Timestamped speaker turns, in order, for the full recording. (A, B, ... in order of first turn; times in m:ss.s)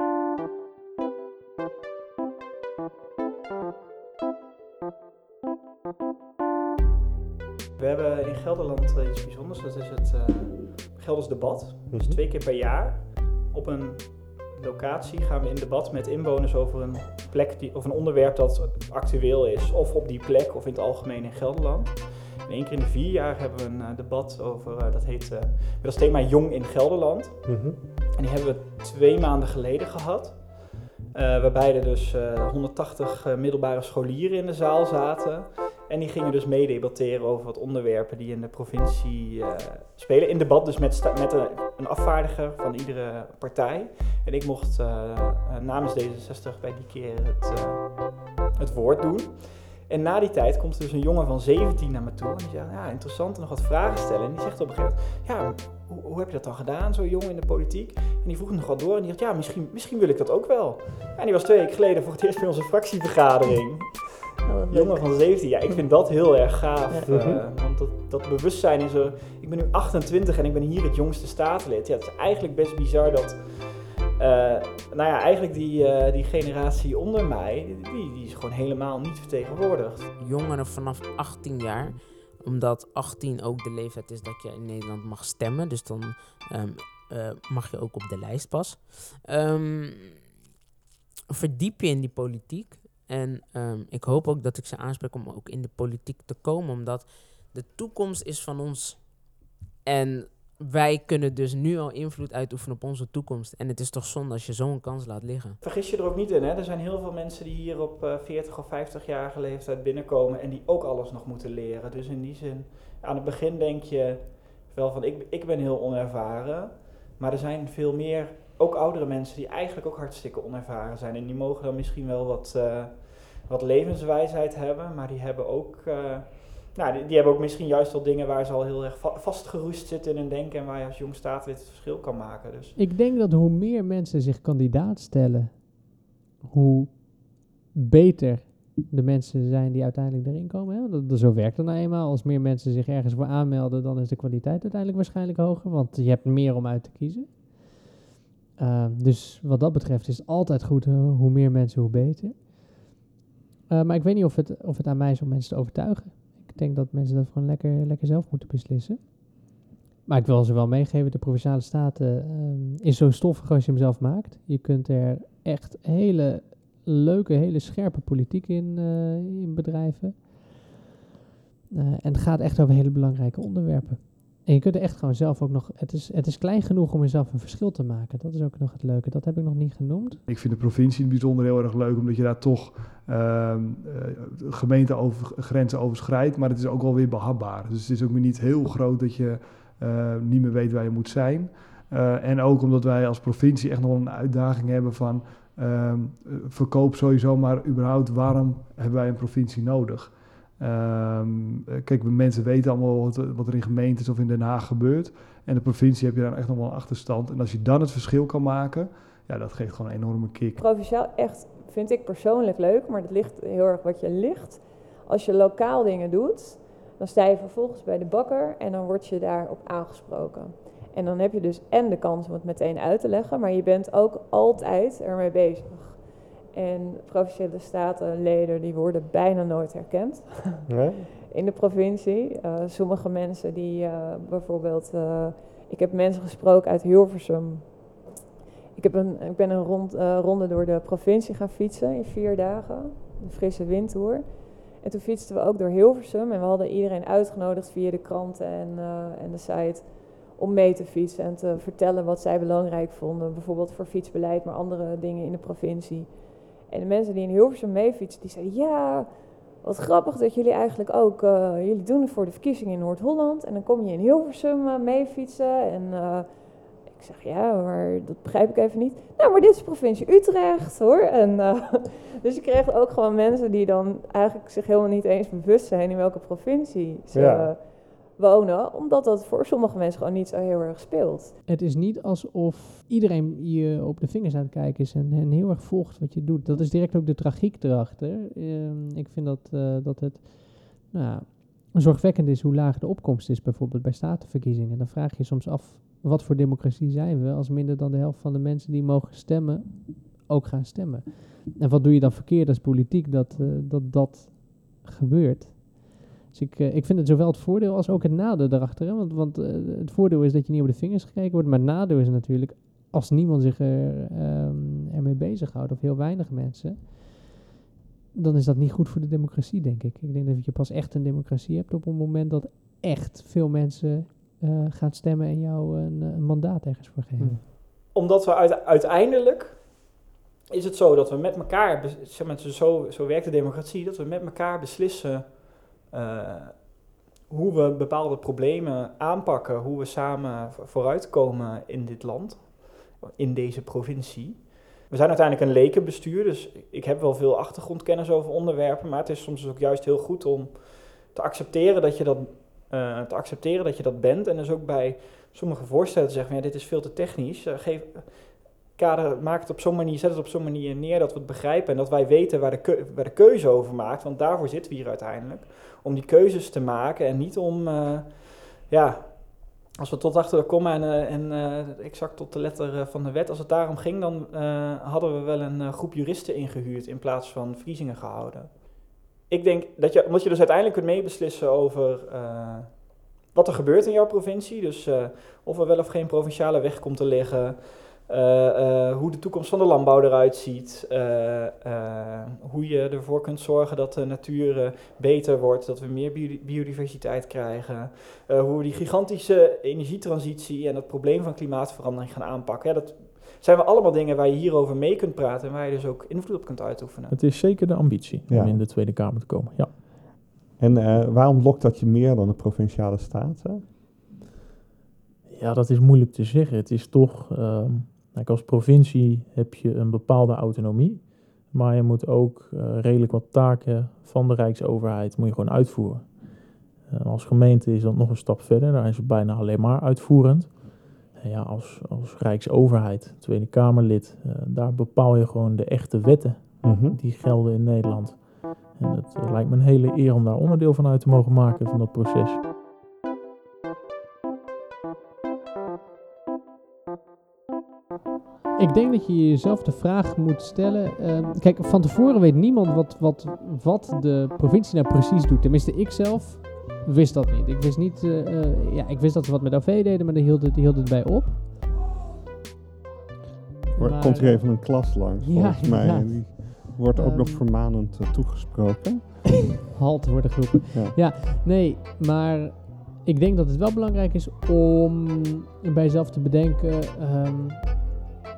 0:07.8-1:20.1 A
0:11.9-0:12.2 B
0:27.4-0:27.8 B
1:04.4-1:05.5 C
1:06.9-1:07.3 C
1:07.1-1:07.4 B
1:20.2-1:30.2 D
1:31.3-1:45.6 D
1:45.6-2:12.7 A
2:12.8-2:27.9 E
2:28.6-2:32.9 E
2:33.7-2:50.7 E
2:51.7-3:00.2 E
3:00.3-3:30.6 F
3:30.6-3:58.0 C
3:50.7-3:51.1 B
3:58.7-4:41.3 C
4:37.1-4:37.5 B
4:41.4-5:17.3 E
5:18.1-5:27.4 E
5:27.2-5:27.4 B
5:27.7-6:47.2 A
6:47.1-6:50.1 G
6:48.3-6:48.7 B
6:50.6-6:53.6 B
6:55.2-7:22.4 G
7:16.6-7:17.0 B
7:28.6-7:41.6 E
7:43.7-7:47.5 E
7:43.8-7:49.2 B
7:49.2-7:57.9 E